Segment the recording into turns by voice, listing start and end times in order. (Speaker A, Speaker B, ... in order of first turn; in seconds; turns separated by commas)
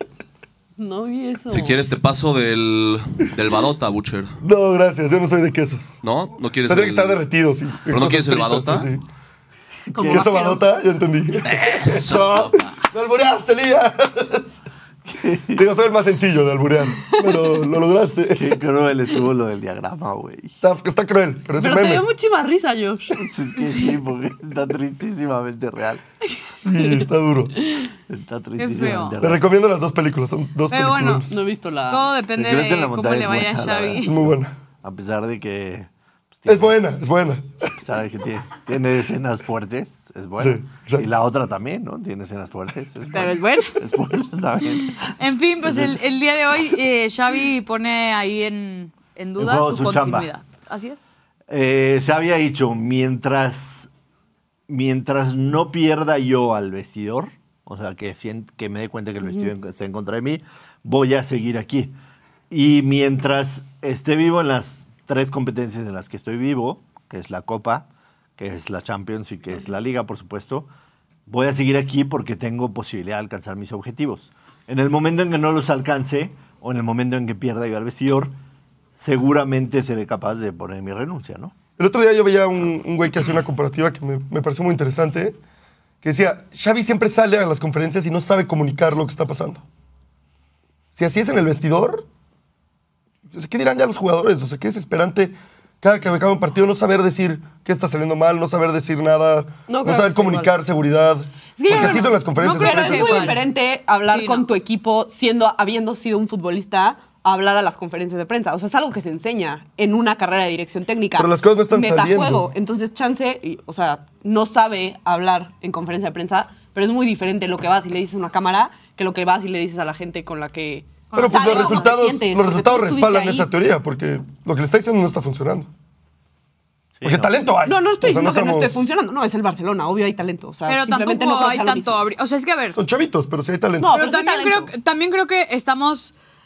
Speaker A: 0.8-1.8, Speaker B: 1.5-4.4, Speaker C: 4.4-6.0, Speaker B: 6.0-7.2, Speaker C: 6.7-9.0, Speaker B: 7.9-8.9, Speaker D: 9.9-10.3, Speaker A: 9.9-10.6, Speaker C: 10.0-14.5, Speaker B: 11.4-12.7, Speaker D: 15.1-15.6, Speaker C: 15.5-18.6, Speaker A: 17.1-17.6, Speaker D: 18.3-20.6, Speaker C: 20.6-22.1, Speaker A: 21.6-23.2, Speaker D: 23.1-26.0, Speaker E: 23.6-23.9, Speaker A: 26.4-27.1, Speaker C: 26.6-27.6, Speaker D: 28.1-29.4, Speaker E: 28.6-29.2, Speaker C: 29.2-31.3, Speaker E: 30.7-31.3, Speaker A: 31.3-32.1, Speaker E: 31.9-34.2, Speaker D: 32.3-36.8, Speaker C: 34.0-34.5, Speaker C: 36.5-37.6, Speaker D: 37.8-45.1, Speaker C: 40.4-41.1, Speaker A: 43.1-43.7, Speaker E: 45.1-51.1, Speaker D: 45.6-46.0, Speaker D: 49.4-50.3, Speaker D: 51.5-53.9, Speaker D: 54.7-62.0, Speaker D: 62.5-70.7, Speaker D: 71.3-78.4, Speaker D: 79.0-81.5, Speaker C: 81.8-85.4, Speaker C: 86.0-89.6, Speaker C: 91.0-92.0, Speaker C: 93.3-103.5, Speaker A: 99.7-100.5, Speaker A: 101.6-123.5, Speaker E: 101.7-103.4, Speaker E: 104.1-104.5, Speaker C: 111.2-112.5, Speaker E: 121.1-121.9, Speaker C: 121.2-125.7, Speaker D: 127.0-127.4, Speaker C: 127.0-128.8, Speaker A: 127.6-132.0, Speaker E: 130.7-132.8, Speaker C: 132.8-133.9, Speaker A: 133.8-134.7, Speaker E: 133.9-136.1